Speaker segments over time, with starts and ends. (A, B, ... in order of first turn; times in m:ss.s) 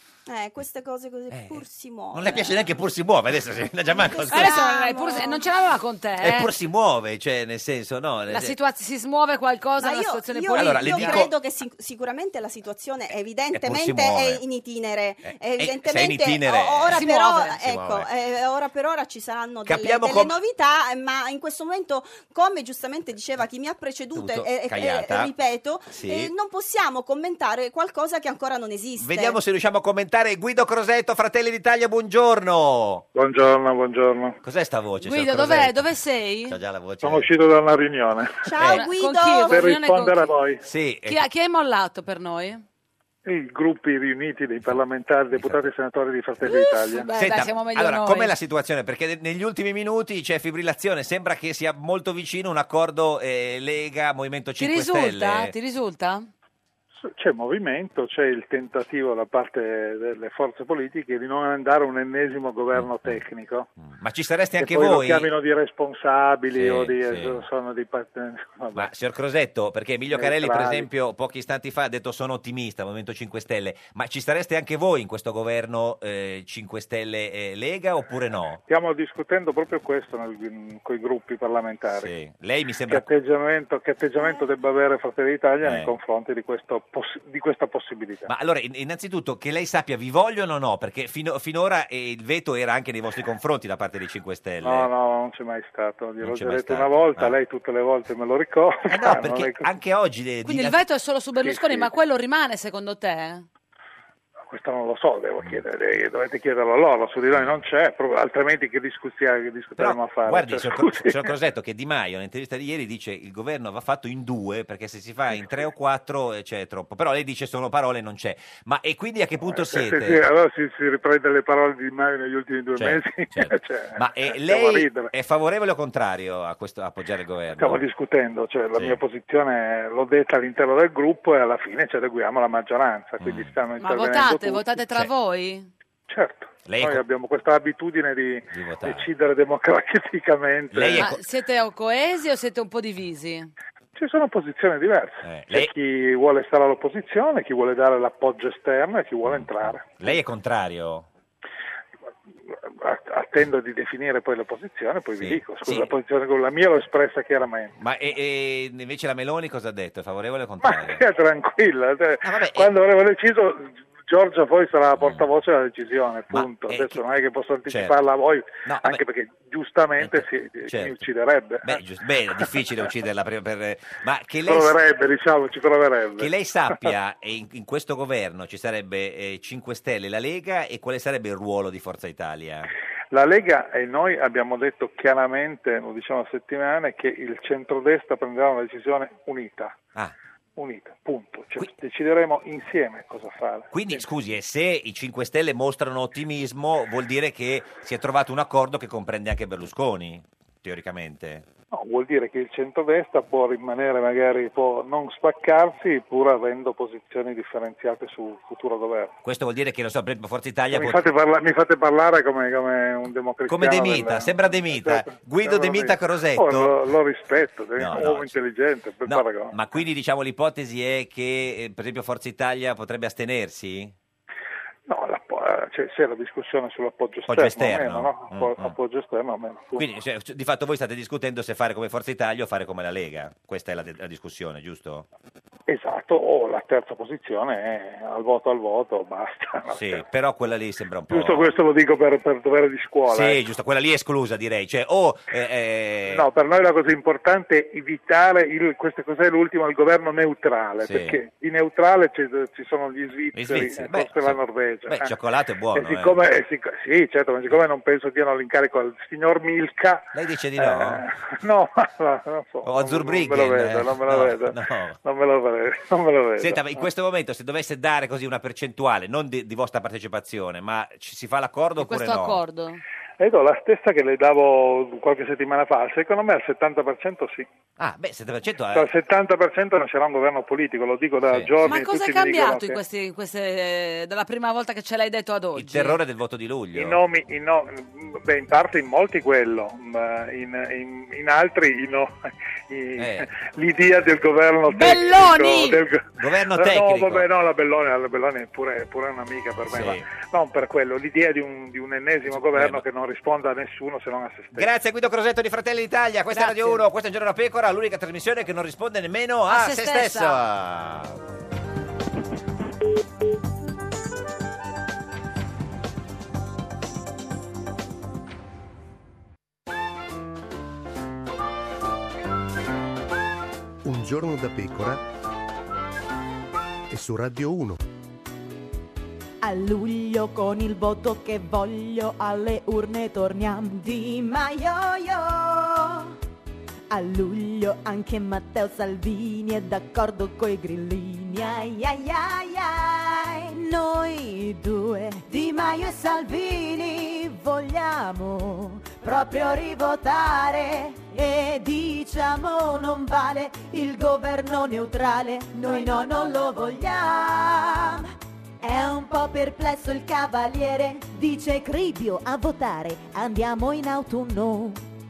0:00.2-0:02.6 A
0:01.3-0:04.6 B
0:03.9-0:05.5 A
0:04.3-0:06.5 C
0:06.2-0:08.5 B
0:08.3-0:11.3 C
0:09.8-0:29.4 A
0:10.5-0:11.3 B
0:13.5-0:14.4 B
0:15.2-0:18.1 B
0:16.9-0:17.6 C
0:19.6-0:20.4 B
0:24.1-0:25.3 B
0:25.9-0:26.3 B
0:29.0-0:33.0 B
0:33.1-0:34.4 D
0:34.4-0:35.9 B
0:35.0-0:36.6 C
0:36.5-0:37.3 B
0:37.0-0:38.5 D
0:38.4-0:39.7 A
0:38.5-0:38.8 B
0:38.6-0:40.3 C
0:39.5-0:40.6 D
0:40.6-0:41.2 B
0:41.0-0:42.6 C
0:43.2-0:47.1 D
0:45.3-0:45.7 B
0:46.4-0:48.3 C
0:47.1-0:55.5 B
0:54.6-0:56.3 C
0:57.0-1:03.7 D
1:02.7-1:03.2 B
1:03.8-1:05.3 B
1:04.6-1:08.9 D
1:06.5-1:07.4 B
1:08.7-1:18.6 B
1:10.1-1:10.9 D
1:18.7-1:22.1 D
1:21.9-1:23.1 B
1:22.9-1:28.3 D
1:25.6-1:26.0 B
1:28.3-1:34.9 B
1:34.6-1:39.7 D
1:36.2-1:37.4 B
1:38.9-1:40.8 B
1:40.4-1:43.4 C
1:41.4-1:41.9 D
1:44.5-1:51.3 D
1:45.4-1:45.6 B
1:47.3-1:47.6 B
1:49.8-2:00.2 B
1:59.4-2:05.1 D
2:02.7-2:07.9 B
2:07.6-2:14.7 D
2:08.7-2:09.0 B
2:13.2-2:13.6 B
2:13.8-2:15.7 C
2:16.1-2:21.1 D
2:16.6-2:17.0 B
2:18.5-2:19.1 B
2:20.7-2:21.2 B
2:21.0-2:23.5 C
2:24.0-2:30.2 D
2:25.2-2:25.7 B
2:29.2-2:31.1 B
2:32.6-2:37.7 D
2:35.2-2:35.9 B
2:37.8-2:41.0 B
2:40.6-2:51.8 D
2:42.2-2:42.7 B
2:45.0-2:45.3 B
2:46.3-2:47.0 B
2:47.7-2:48.0 B
2:48.6-2:49.0 B
2:50.0-2:51.1 B
2:51.6-2:54.8 B
2:54.4-2:56.9 D
2:56.2-3:02.7 B
3:03.1-3:09.8 D
3:10.6-3:14.0 D
3:13.7-3:21.4 B
3:21.7-3:29.1 D
3:29.2-3:31.1 B
3:30.7-3:39.6 D
3:33.4-3:37.0 B
3:37.7-3:38.4 B
3:39.0-3:43.9 B
3:44.9-3:49.8 D
3:47.2-3:48.8 B
3:49.7-3:55.0 B
3:55.7-4:00.0 D
3:59.7-4:01.6 B
4:01.1-4:03.4 D
4:03.1-4:06.3 B
4:06.1-4:15.1 D
4:10.8-4:11.2 B
4:13.3-4:16.2 B
4:15.7-4:26.8 D
4:20.1-4:21.0 B
4:22.6-4:25.0 B
4:26.4-4:32.4 B
4:31.8-4:32.8 C
4:33.2-4:37.5 D
4:37.8-4:38.9 B
4:38.7-4:42.8 D
4:41.3-4:41.6 B
4:41.6-4:46.0 C
4:45.6-4:47.0 B
4:46.7-4:52.1 D
4:52.7-5:04.7 D
4:53.0-4:53.3 B
4:54.7-4:55.8 C
4:56.2-4:57.3 B
4:59.7-5:00.0 B
5:02.2-5:02.8 B
5:04.5-5:11.2 B
5:06.3-5:06.8 C
5:09.5-5:10.4 C
5:23.8-5:25.0 E
5:26.9-5:27.8 E
5:29.4-5:36.1 F
5:36.9-5:58.1 F
5:58.6-6:04.8 F